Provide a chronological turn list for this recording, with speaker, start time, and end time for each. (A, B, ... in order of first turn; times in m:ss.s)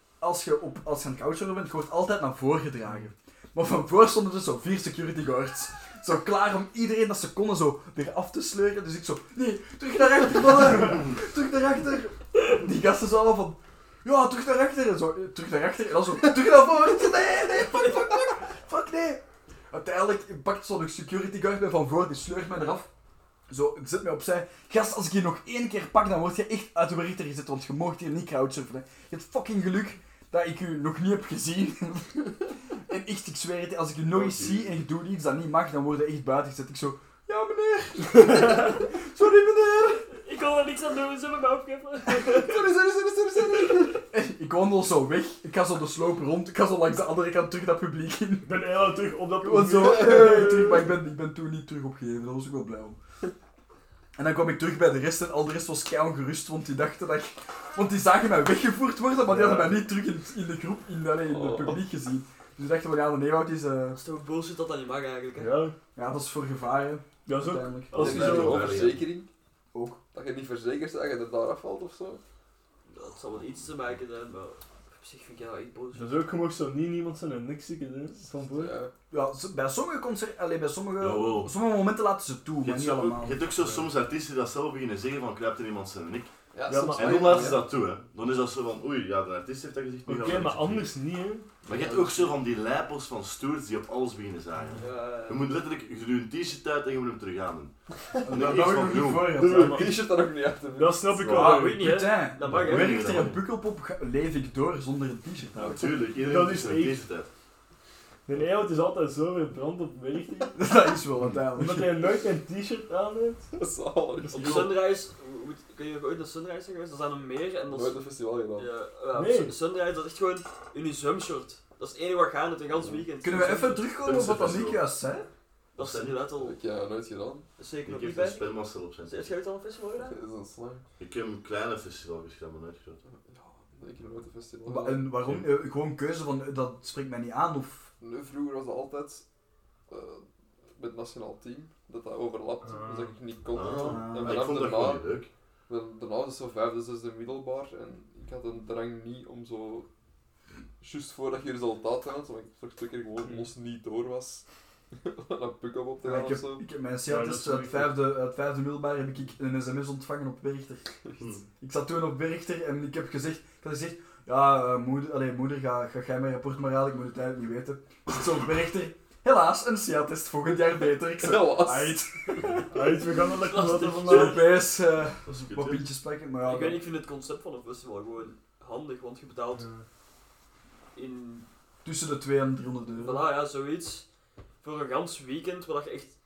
0:00.2-0:22.9 A
0:23.5-0:40.1 A
0:34.1-0:34.7 B
0:38.4-0:38.7 C
0:40.3-0:41.0 C
0:40.3-0:42.3 D
0:42.0-0:42.3 C
0:42.3-0:44.0 E
0:42.4-0:42.8 A
0:44.0-0:48.6 A
0:48.5-0:50.9 C
0:49.4-0:53.0 A
0:49.8-0:50.6 E
0:54.2-1:04.0 A
0:59.3-0:59.6 C
1:01.3-1:01.8 E
1:03.9-1:05.6 D
1:05.4-1:05.8 C
1:06.0-1:08.3 A
1:07.3-1:08.9 C
1:07.9-1:09.1 B
1:07.9-1:09.3 E
1:09.7-1:10.0 A
1:10.1-1:12.2 E
1:12.9-1:16.2 D
1:15.9-1:18.8 C
1:18.5-1:18.9 E
1:19.1-1:23.4 A
1:21.0-1:21.5 B
1:22.6-1:26.3 B
1:23.6-1:23.9 C
1:26.5-1:27.6 E
1:26.7-1:27.6 C
1:27.0-1:30.9 B
1:30.1-1:31.5 C
1:31.6-1:32.4 E
1:31.7-1:37.7 B
1:34.8-1:35.5 D
1:38.2-1:39.9 A
1:38.3-1:39.4 B
1:39.3-1:41.1 E
1:39.4-1:40.2 C
1:40.7-1:42.0 C
1:41.2-1:41.6 B
1:41.3-1:45.9 A
1:41.3-1:43.0 D
1:42.4-1:43.4 B
1:45.6-1:47.3 B
1:46.2-1:47.0 C
1:48.3-1:50.6 C
1:50.6-1:52.0 A
1:51.6-1:53.5 C
1:53.5-1:54.8 E
1:54.2-1:54.7 C
1:54.3-1:58.0 D
1:57.7-1:58.7 E
1:58.6-2:03.8 D
1:59.1-1:59.6 C
2:02.8-2:03.0 E
2:03.2-2:05.3 A
2:04.0-2:04.8 B
2:05.8-2:06.6 D
2:05.8-2:06.2 B
2:06.4-2:07.5 E
2:07.6-2:08.5 D
2:07.8-2:09.3 B
2:09.0-2:10.2 D
2:10.0-2:10.8 E
2:11.0-2:13.0 B
2:13.1-2:15.1 E
2:14.6-2:17.9 A
2:18.0-2:19.2 E
2:19.9-2:25.1 E
2:22.6-2:23.2 C
2:23.5-2:25.3 B
2:23.8-2:24.5 A
2:25.7-2:29.9 E
2:30.8-2:36.6 E
2:33.2-2:33.5 C
2:36.0-2:40.9 A
2:37.1-2:38.0 C
2:41.6-2:52.5 A
2:51.2-2:52.1 E
2:52.7-2:54.5 C
2:53.0-2:54.6 D
2:54.1-2:56.8 A
2:55.2-2:55.9 B
2:56.4-2:59.7 D
2:59.6-2:59.9 C
3:00.9-3:01.5 D
3:01.8-3:03.3 A
3:03.0-3:04.1 D
3:04.6-3:06.1 D